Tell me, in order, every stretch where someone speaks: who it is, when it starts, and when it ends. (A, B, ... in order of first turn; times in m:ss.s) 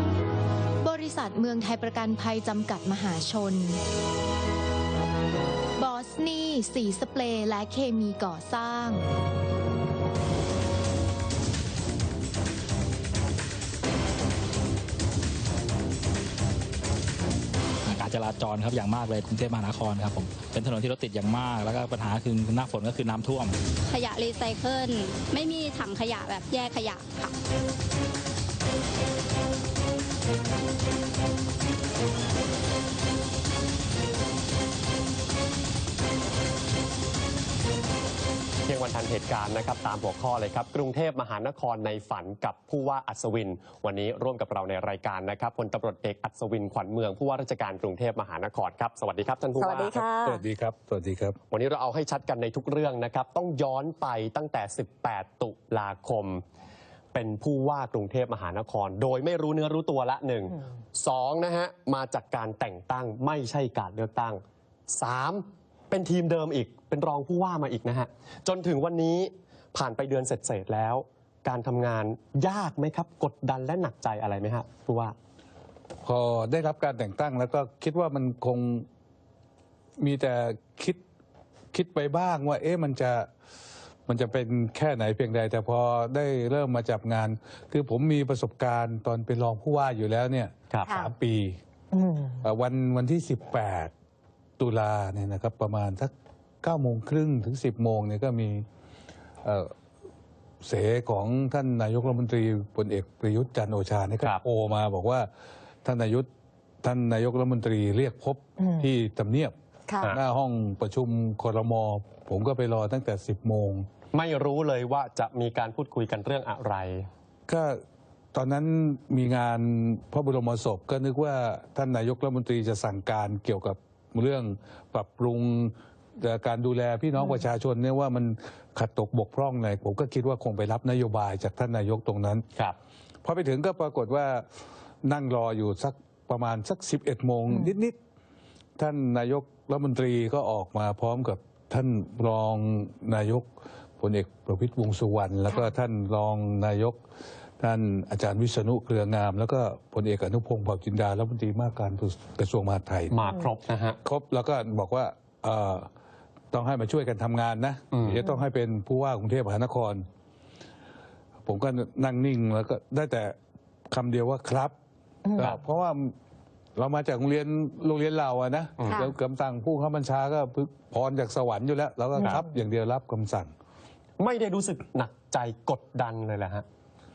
0:00.8-0:03.8 A
0:05.8-0:09.0 A
0:17.8-0:23.6 B
0:23.9-0:27.3 C
0:38.7-0:50.0 D
0:49.6-0:50.4 E
0:50.2-0:51.4 F
0:51.5-0:56.4 D
0:57.1-1:15.2 D
1:16.0-1:18.9 F
1:20.0-1:21.0 F
1:21.7-1:23.3 F
1:24.1-1:31.6 F
1:30.9-1:31.1 E
1:31.9-1:32.5 E
1:32.4-1:33.9 F
1:34.6-1:38.6 F
1:39.4-1:39.7 F
1:40.6-1:45.3 F
1:45.8-1:46.3 F
1:46.8-1:49.5 F
1:48.6-1:48.9 E
1:49.9-1:50.2 E
1:50.1-1:53.9 F
1:54.1-1:57.1 D
1:57.5-1:57.8 F
1:58.3-2:12.5 F
2:07.2-2:07.4 E
2:13.2-2:14.4 F
2:15.0-2:18.0 F
2:17.5-2:17.8 E
2:18.8-2:23.5 F
2:24.0-2:27.0 F
2:27.6-2:33.2 F
2:33.1-2:34.0 D
2:34.0-2:35.9 F
2:36.5-2:40.0 F
2:37.9-2:38.2 D
2:41.4-2:43.4 F
2:43.9-2:44.7 F
2:45.2-2:45.6 E
2:45.4-2:46.1 F
2:46.8-2:53.5 F
2:48.8-2:49.1 D
2:48.9-2:49.1 E
2:52.2-2:52.5 E
2:54.2-2:56.6 D